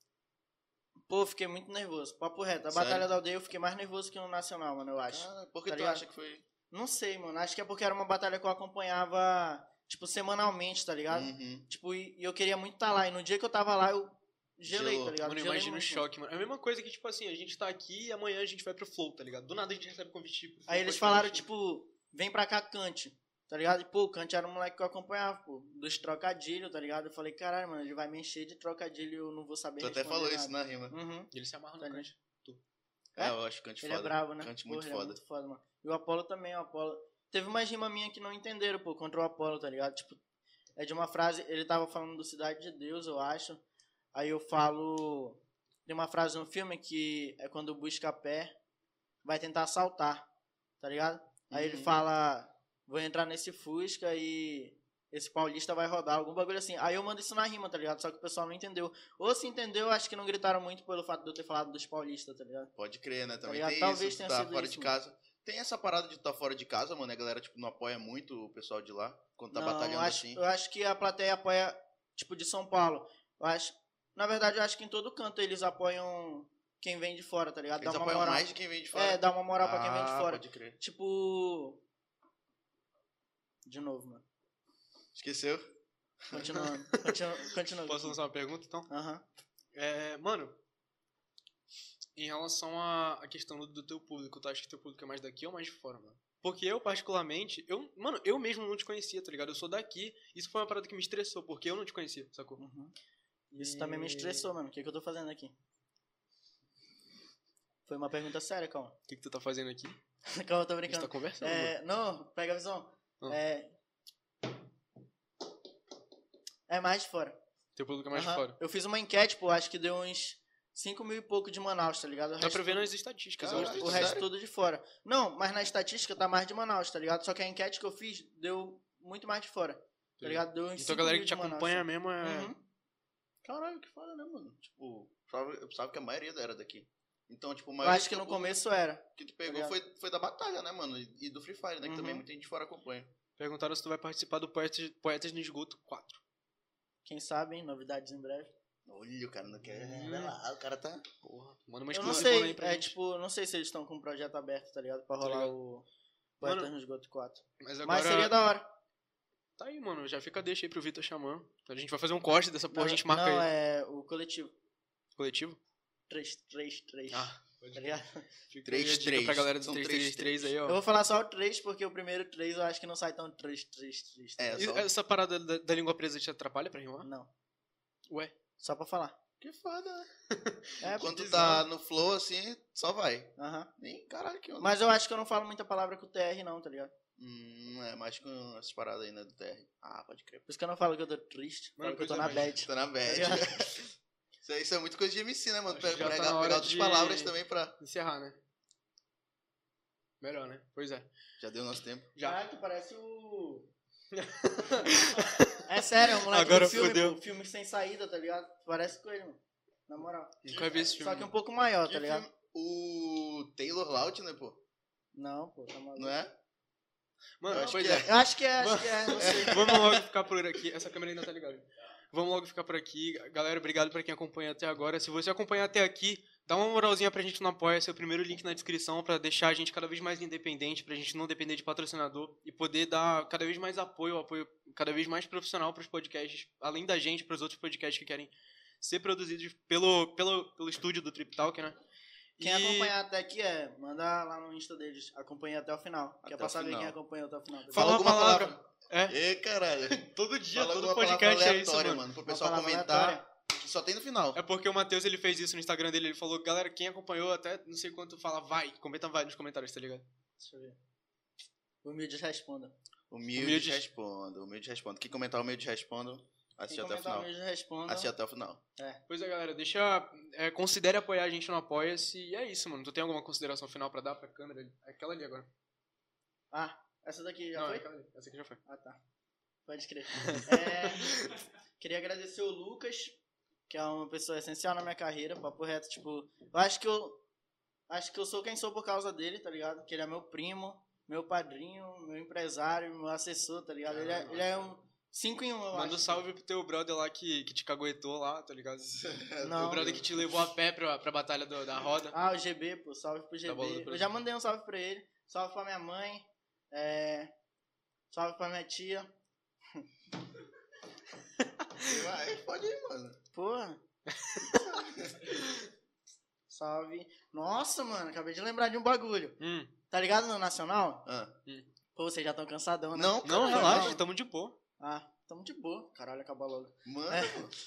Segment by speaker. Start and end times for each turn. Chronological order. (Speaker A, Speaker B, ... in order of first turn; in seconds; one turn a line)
Speaker A: 1.1-6.0
Speaker B: 2.7-3.1
Speaker B: 5.0-6.4
Speaker A: 6.7-16.0
Speaker B: 11.1-11.7
Speaker B: 14.7-15.2
Speaker C: 15.2-21.4
Speaker A: 20.7-32.1
Speaker B: 29.8-30.9
Speaker C: 31.3-32.6
Speaker A: 33.1-40.2
Speaker B: 33.2-35.2
Speaker A: 40.8-43.6
Speaker A: 44.1-48.5
Speaker A: 49.2-50.3
Speaker A: 50.8-62.7
Speaker B: 51.5-51.9
Speaker B: 62.8-70.4
Speaker A: 63.5-64.9
Speaker A: 69.5-81.8
Speaker B: 77.8-80.8
Speaker A: 83.7-84.2
Speaker B: 85.1-85.7
Speaker B: 86.3-86.6
Speaker A: 86.3-88.2
Speaker C: 86.5-87.1
Speaker C: 87.8-88.9
Speaker A: 88.9-89.2
Speaker C: 89.7-90.6
Speaker C: 92.2-102.6
Speaker A: 102.6-102.9
Speaker C: 103.5-104.5
Speaker A: 103.5-105.5
Speaker A: 107.9-109.0
Speaker C: 109.1-110.0
Speaker A: 110.3-113.7
Speaker C: 110.9-111.7
Speaker A: 116.7-117.4
Speaker C: 117.8-118.5
Speaker A: 118.1-122.9
Speaker C: 122.4-124.1
Speaker B: 123.4-124.3
Speaker A: 123.4-132.6
Speaker C: 130.2-132.5
Speaker B: 133.4-138.6
Speaker A: 137.8-139.8
Speaker B: 139.2-143.1
Speaker A: 141.8-142.2
Speaker C: 143.4-146.2
Speaker A: 147.0-148.5
Speaker B: 148.8-151.0
Speaker C: 149.7-150.3
Speaker C: 151.2-152.9
Speaker A: 151.9-155.8
Speaker B: 152.0-152.3
Speaker C: 155.2-155.5
Speaker A: 156.4-158.7
Speaker C: 156.4-156.7
Speaker C: 157.6-158.4
Speaker C: 159.6-163.5
Speaker A: 162.7-164.5
Speaker C: 165.2-165.6
Speaker A: 166.1-168.3
Speaker C: 167.1-167.8
Speaker C: 168.5-170.8
Speaker B: 168.6-170.5
Speaker A: 170.6-174.7
Speaker B: 174.4-174.9
Speaker C: 174.6-177.1
Speaker A: 177.0-177.3
Speaker C: 178.1-178.3
Speaker A: 178.6-179.2
Speaker B: 179.4-180.1
Speaker C: 180.3-181.6
Speaker A: 180.8-181.1
Speaker B: 180.9-184.8
Speaker A: 183.4-183.7
Speaker A: 184.6-186.9
Speaker B: 187.2-190.4
Speaker A: 190.5-193.7
Speaker C: 191.8-192.6
Speaker B: 192.5-193.9
Speaker B: 194.4-197.7
Speaker C: 195.7-198.4
Speaker C: 200.2-201.1
Speaker B: 201.4-202.1
Speaker A: 202.2-203.7
Speaker C: 204.1-207.2
Speaker A: 205.7-210.4
Speaker C: 210.4-211.3
Speaker B: 210.5-210.9
Speaker A: 211.0-212.2
Speaker B: 211.8-214.6
Speaker A: 215.2-216.2
Speaker B: 215.9-216.3
Speaker C: 217.4-241.8
Speaker B: 217.5-218.1
Speaker A: 217.5-220.0
Speaker B: 219.2-219.8
Speaker C: 242.4-242.9
Speaker A: 242.4-248.2
Speaker B: 246.2-246.9
Speaker C: 247.7-249.2
Speaker B: 247.7-254.4
Speaker C: 249.9-252.0
Speaker A: 252.2-253.2
Speaker C: 254.3-260.1
Speaker A: 260.4-260.8
Speaker A: 261.8-262.7
Speaker B: 263.1-267.3
Speaker C: 263.4-263.8
Speaker A: 266.7-268.1
Speaker B: 267.9-268.6
Speaker C: 269.1-275.5
Speaker A: 276.5-277.9
Speaker C: 277.6-278.6
Speaker A: 278.6-279.0
Speaker A: 279.7-283.1
Speaker C: 280.1-281.3
Speaker A: 283.7-287.2
Speaker A: 287.9-296.2
Speaker C: 294.0-294.4
Speaker C: 295.7-299.1
Speaker B: 299.0-300.4
Speaker A: 299.4-299.9
Speaker C: 299.6-302.1
Speaker A: 302.1-307.3
Speaker C: 303.4-304.2
Speaker A: 308.1-309.1
Speaker B: 311.8-313.2
Speaker A: 313.3-313.8
Speaker C: 314.1-314.5
Speaker B: 314.6-315.3
Speaker A: 316.5-319.4
Speaker C: 319.4-319.7
Speaker A: 319.9-321.1
Speaker B: 321.1-321.3
Speaker A: 321.9-324.0
Speaker B: 322.9-324.0
Speaker C: 323.2-324.6
Speaker A: 324.8-327.5
Speaker B: 326.8-327.5